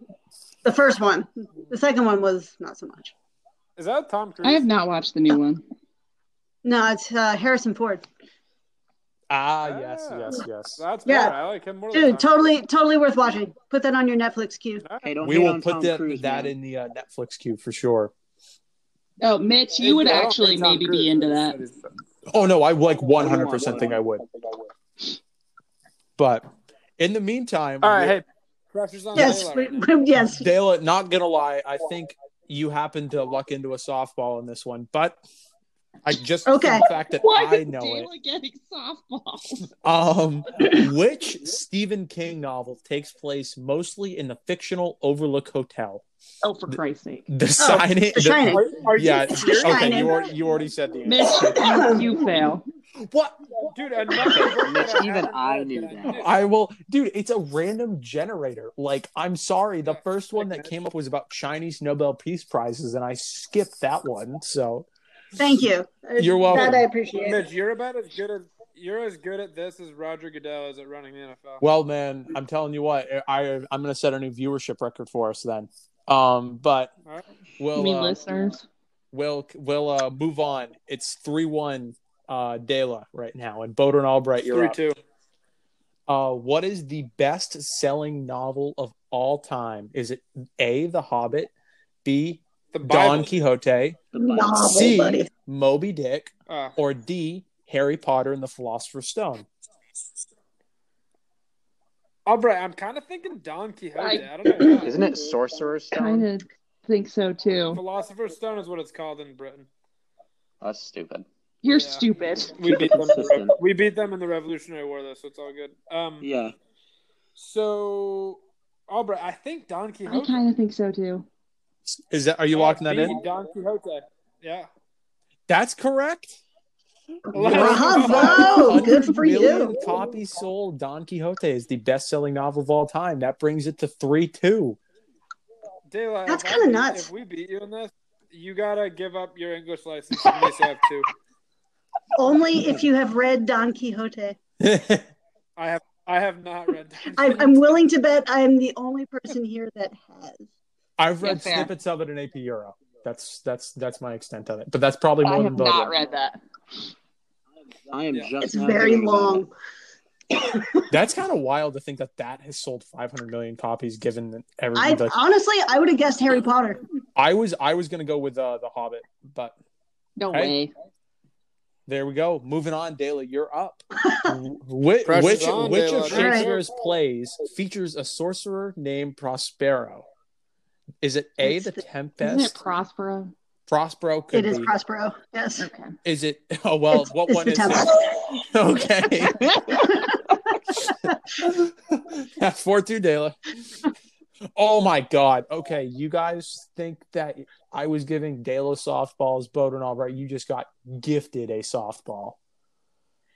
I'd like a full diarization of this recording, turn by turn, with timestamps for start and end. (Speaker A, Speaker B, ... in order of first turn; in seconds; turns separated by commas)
Speaker A: 0.7-3.1, Speaker B: 3.8-4.7, Speaker C: 4.4-5.6, Speaker A: 6.6-8.1, Speaker D: 9.3-10.8, Speaker B: 9.6-12.5, Speaker A: 11.1-11.4, Speaker A: 11.9-14.8, Speaker B: 14.8-15.1, Speaker E: 15.0-16.5, Speaker D: 15.2-18.1, Speaker C: 19.2-21.6, Speaker B: 19.8-22.0, Speaker D: 22.3-24.2, Speaker E: 23.2-24.0, Speaker D: 26.2-26.4, Speaker D: 27.0-28.2, Speaker B: 27.8-29.9, Speaker A: 29.1-30.5, Speaker D: 30.3-35.2, Speaker D: 36.0-38.1, Speaker A: 36.5-36.9, Speaker C: 37.2-39.7, Speaker D: 39.8-46.0, Speaker C: 46.4-47.3, Speaker D: 46.7-51.9, Speaker A: 47.6-48.6, Speaker B: 48.5-50.2, Speaker A: 49.5-50.2, Speaker C: 51.1-52.6, Speaker A: 51.4-52.1, Speaker D: 53.0-53.4, Speaker B: 53.7-56.4, Speaker E: 54.2-56.2, Speaker D: 56.1-64.9, Speaker B: 59.8-60.7, Speaker A: 65.4-67.4, Speaker D: 66.2-66.9, Speaker B: 67.2-71.6, Speaker D: 71.6-76.9, Speaker D: 77.6-78.2, Speaker C: 77.8-78.6, Speaker D: 79.1-84.8, Speaker B: 84.5-85.0, Speaker D: 86.1-91.5, Speaker D: 92.0-94.0, Speaker B: 92.7-93.3, Speaker E: 94.1-94.9, Speaker A: 94.2-95.3, Speaker D: 94.6-99.5, Speaker B: 96.5-96.8, Speaker B: 102.3-105.0, Speaker C: 104.0-104.8, Speaker E: 104.8-106.3, Speaker C: 105.9-107.8, Speaker B: 107.7-109.7, Speaker E: 110.6-111.3, Speaker C: 111.6-112.9, Speaker B: 111.7-116.3, Speaker E: 112.7-113.6, Speaker E: 116.2-116.5, Speaker B: 117.4-120.4, Speaker C: 120.1-121.3, Speaker D: 121.9-123.2, Speaker B: 122.5-124.7, Speaker D: 125.5-126.4, Speaker A: 127.3-129.8, Speaker B: 127.3-128.8, Speaker D: 127.4-134.8, Speaker B: 135.9-141.1, Speaker A: 136.3-137.1, Speaker A: 142.2-144.4, Speaker D: 144.6-145.1, Speaker B: 145.6-147.8, Speaker A: 147.2-150.5, Speaker D: 151.0-155.9, Speaker C: 151.2-151.7, Speaker C: 155.2-156.4, Speaker E: 157.9-159.4, Speaker A: 158.4-159.5, Speaker A: 160.5-160.8, Speaker D: 160.9-165.2, Speaker A: 164.8-166.8, Speaker D: 167.2-169.6, Speaker C: 170.2-170.7, Speaker D: 170.3-170.6, Speaker D: 171.9-180.1, Speaker B: 175.1-176.6, Speaker A: 176.1-176.5, Speaker D: 181.0-182.6, Speaker A: 181.4-181.8, Speaker C: 182.2-183.3, Speaker D: 183.7-184.7, Speaker A: 184.3-185.7, Speaker C: 185.6-185.9, Speaker D: 186.0-189.5, Speaker A: 187.3-188.2, Speaker C: 189.4-189.9, Speaker A: 189.9-190.2, Speaker D: 190.8-193.3, Speaker D: 194.6-202.4